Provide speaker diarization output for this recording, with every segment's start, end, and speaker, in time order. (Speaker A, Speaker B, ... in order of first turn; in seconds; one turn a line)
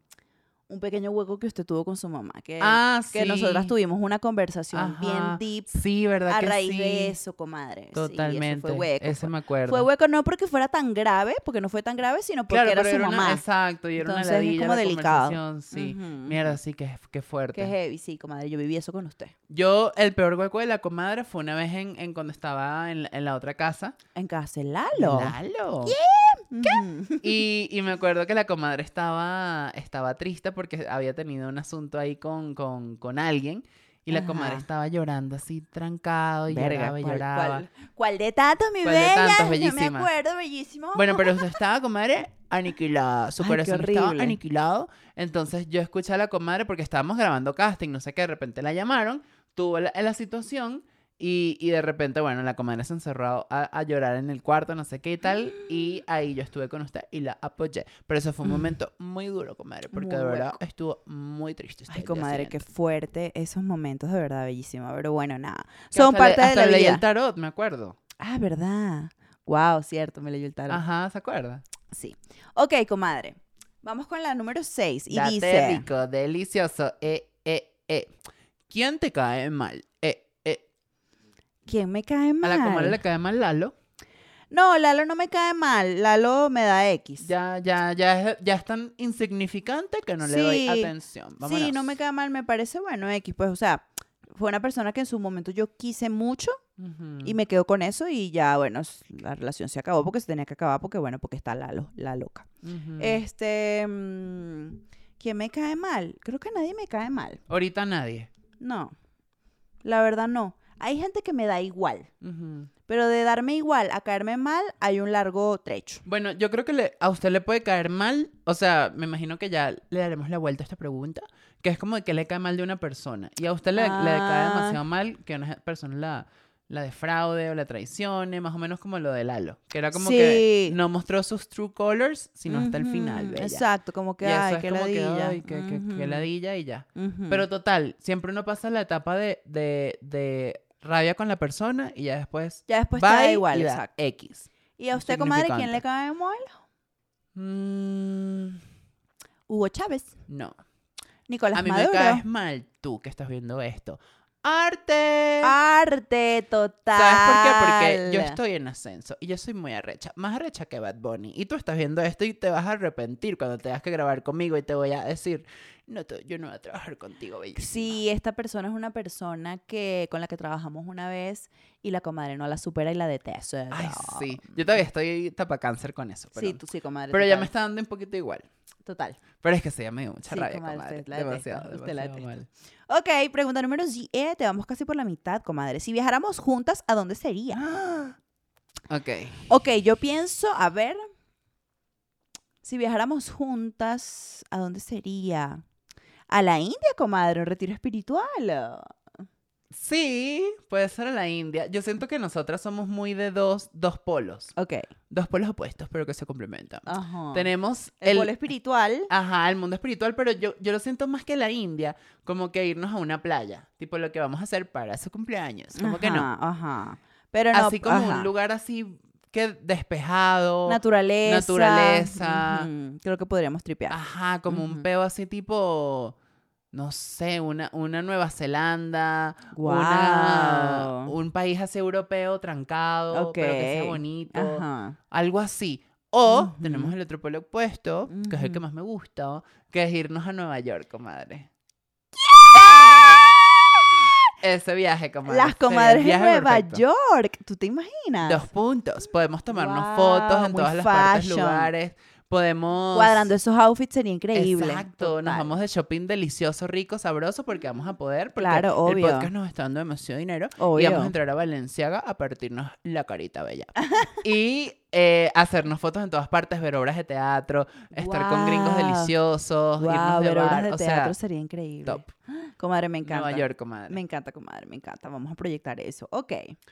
Speaker A: 0.7-5.7
Speaker B: 2.6-3.7
Speaker B: 4.7-7.2
Speaker A: 6.3-13.4
Speaker B: 7.9-9.9
Speaker B: 12.5-17.7
Speaker A: 14.0-16.5
Speaker A: 17.5-19.3
Speaker B: 19.5-24.0
Speaker A: 24.1-27.4
Speaker B: 24.9-26.0
Speaker B: 26.6-37.6
Speaker A: 34.1-34.6
Speaker A: 36.5-41.5
Speaker B: 38.8-40.1
Speaker B: 40.9-62.6
Speaker A: 43.4-44.4
Speaker A: 59.9-60.6
Speaker A: 61.9-67.0
Speaker B: 65.9-68.0
Speaker A: 68.2-70.8
Speaker B: 70.7-71.6
Speaker A: 71.9-75.8
Speaker B: 75.1-78.1
Speaker B: 78.7-80.6
Speaker A: 81.7-83.0
Speaker B: 82.4-83.7
Speaker A: 84.5-87.3
Speaker B: 87.2-91.9
Speaker A: 90.2-96.6
Speaker B: 96.8-97.3
Speaker A: 97.2-102.5
Speaker B: 102.6-103.2
Speaker A: 103.0-107.4
Speaker B: 107.5-108.3
Speaker A: 108.6-108.9
Speaker A: 109.8-112.1
Speaker B: 112.2-112.7
Speaker A: 112.9-116.0
Speaker B: 116.0-133.6
Speaker A: 123.7-124.8
Speaker A: 129.9-130.8
Speaker A: 132.5-136.3
Speaker B: 134.2-145.8
Speaker A: 136.9-137.4
Speaker A: 142.7-143.9
Speaker A: 144.8-146.6
Speaker B: 147.3-148.6
Speaker A: 149.5-150.1
Speaker B: 150.3-150.6
Speaker A: 151.3-152.2
Speaker B: 151.5-155.5
Speaker A: 155.4-158.4
Speaker B: 156.9-168.0
Speaker A: 167.6-174.6
Speaker B: 173.7-176.6
Speaker A: 176.3-177.5
Speaker B: 177.1-178.5
Speaker A: 178.8-179.2
Speaker B: 179.4-182.5
Speaker A: 180.3-182.3
Speaker A: 182.9-187.6
Speaker B: 187.6-188.1
Speaker B: 188.9-189.5
Speaker A: 189.5-191.0
Speaker A: 192.6-195.6
Speaker A: 196.3-198.9
Speaker B: 199.7-204.5
Speaker A: 204.6-204.9
Speaker B: 205.1-208.3
Speaker A: 206.8-209.1
Speaker B: 209.1-216.3
Speaker A: 215.7-218.3
Speaker B: 217.5-222.7
Speaker A: 220.7-224.8
Speaker B: 223.9-226.1
Speaker B: 226.7-241.5
Speaker A: 229.5-231.1
Speaker A: 233.1-235.0
Speaker A: 236.3-236.9
Speaker A: 238.1-238.6
Speaker A: 242.3-243.4
Speaker B: 242.6-243.2
Speaker B: 244.4-246.8
Speaker A: 245.2-248.5
Speaker B: 248.2-253.3
Speaker A: 249.5-251.7
Speaker A: 252.9-255.5
Speaker B: 254.3-271.1
Speaker A: 258.4-259.3
Speaker A: 260.6-261.1
Speaker A: 267.9-269.1
Speaker A: 269.8-276.5
Speaker B: 273.0-274.0